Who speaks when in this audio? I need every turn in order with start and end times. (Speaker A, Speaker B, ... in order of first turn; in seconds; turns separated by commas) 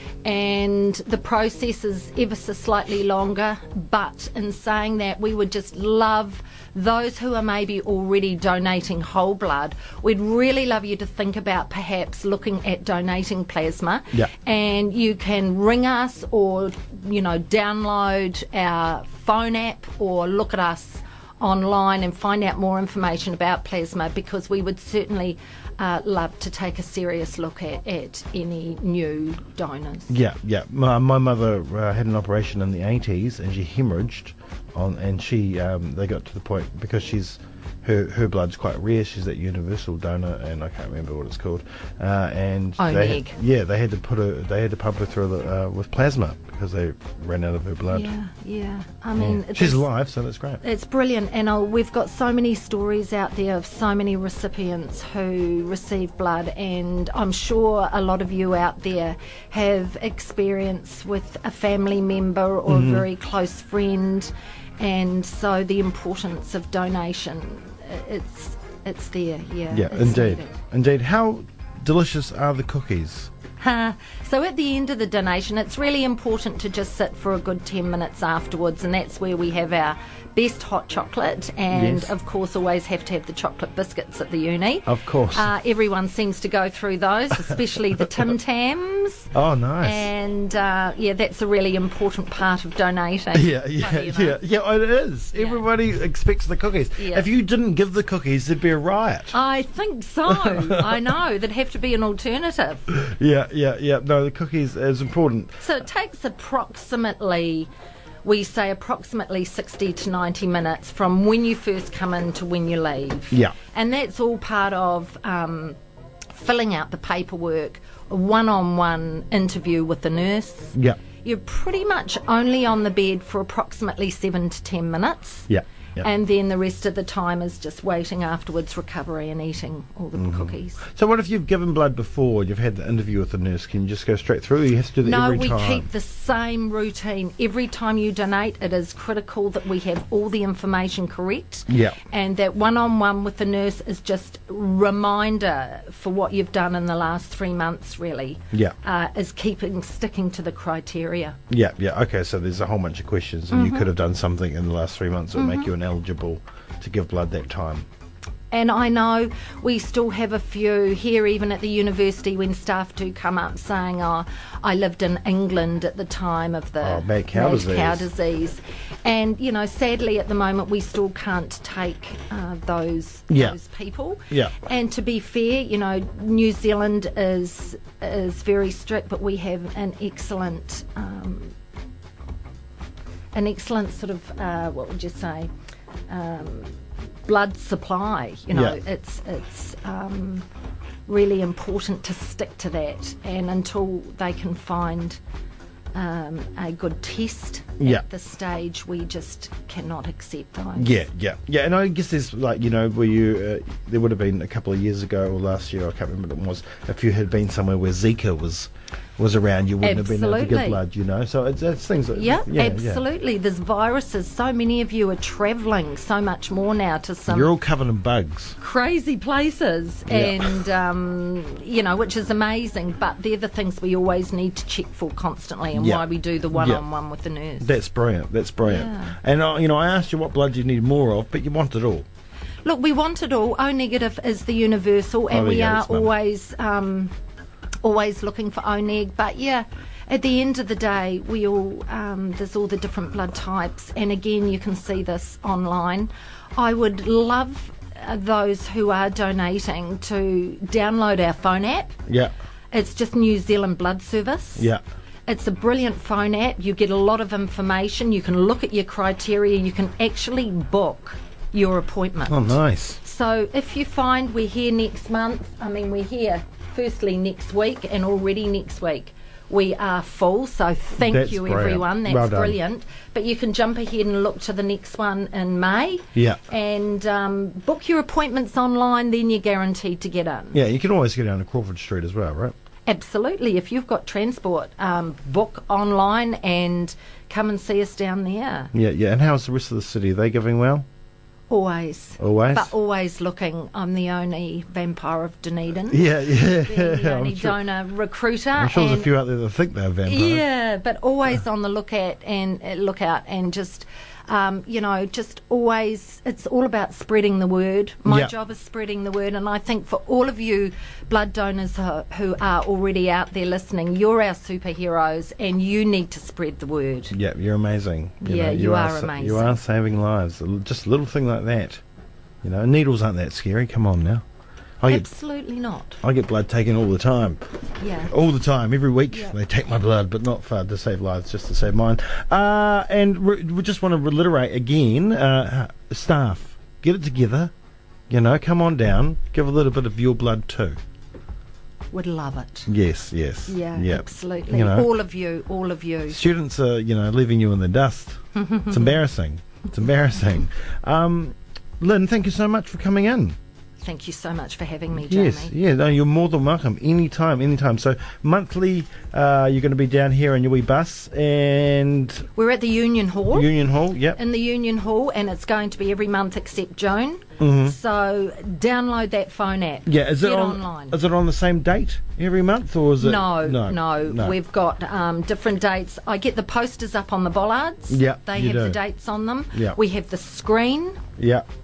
Speaker A: 0.2-30.1, Speaker B: 30.1-48.1, Speaker A: 42.8-43.4, Speaker A: 47.9-49.9, Speaker B: 49.1-50.6, Speaker A: 50.6-70.5, Speaker B: 62.7-63.0, Speaker B: 69.7-73.3, Speaker A: 73.6-94.4, Speaker B: 81.7-82.1, Speaker B: 84.8-85.5, Speaker B: 89.3-90.1, Speaker B: 93.3-99.3, Speaker A: 95.3-95.6, Speaker A: 97.0-97.3, Speaker A: 99.3-102.9, Speaker B: 100.3-100.8, Speaker B: 102.9-105.6, Speaker A: 105.6-107.7, Speaker A: 108.2-115.8, Speaker A: 116.3-125.5, Speaker B: 120.7-121.0, Speaker B: 125.5-126.1, Speaker A: 126.0-130.8, Speaker B: 130.2-135.9, Speaker A: 135.0-151.4, Speaker B: 141.7-142.0, Speaker B: 151.5-157.8, Speaker A: 153.5-153.9, Speaker A: 155.3-155.7, Speaker A: 158.5-181.5, Speaker B: 166.8-168.1, Speaker B: 173.3-173.6, Speaker B: 174.3-174.6, Speaker A: 183.3-185.5, Speaker A: 186.1-190.4, Speaker B: 188.5-188.8, Speaker A: 191.1-195.2, Speaker A: 195.9-200.9, Speaker B: 200.8-213.0, Speaker A: 209.8-210.8, Speaker A: 212.1-217.5, Speaker B: 217.3-218.6, Speaker A: 218.6-227.7, Speaker B: 220.1-220.6, Speaker B: 225.7-226.8, Speaker B: 227.6-232.0, Speaker A: 228.6-229.2, Speaker A: 232.6-237.1, Speaker B: 235.3-236.1, Speaker A: 237.8-251.9, Speaker B: 252.1-252.3, Speaker A: 252.7-254.7, Speaker A: 255.3-280.6, Speaker B: 262.3-263.0, Speaker B: 271.0-272.6, Speaker B: 276.1-276.4, Speaker B: 280.5-282.5, Speaker A: 282.9-288.7, Speaker B: 288.7-290.8, Speaker A: 291.5-299.1, Speaker B: 292.2-292.7, Speaker B: 295.9-297.6, Speaker B: 298.6-300.4, Speaker A: 300.0-317.1, Speaker B: 308.1-308.3, Speaker B: 317.1-321.8, Speaker A: 318.2-319.6, Speaker B: 322.4-324.2, Speaker B: 324.8-325.1, Speaker A: 324.9-326.0, Speaker B: 326.0-327.4, Speaker A: 327.8-328.1, Speaker B: 328.1-337.5, Speaker B: 338.1-340.8, Speaker A: 341.9-342.7, Speaker B: 342.7-344.9, Speaker A: 343.5-346.2, Speaker B: 346.1-353.4, Speaker A: 348.3-349.0, Speaker A: 353.8-355.5, Speaker B: 354.9-362.3, Speaker A: 362.3-363.5, Speaker B: 363.3-364.2, Speaker A: 364.1-371.0, Speaker B: 367.4-367.7, Speaker B: 369.9-374.4, Speaker A: 373.0-381.0, Speaker B: 377.9-378.8, Speaker B: 381.2-381.4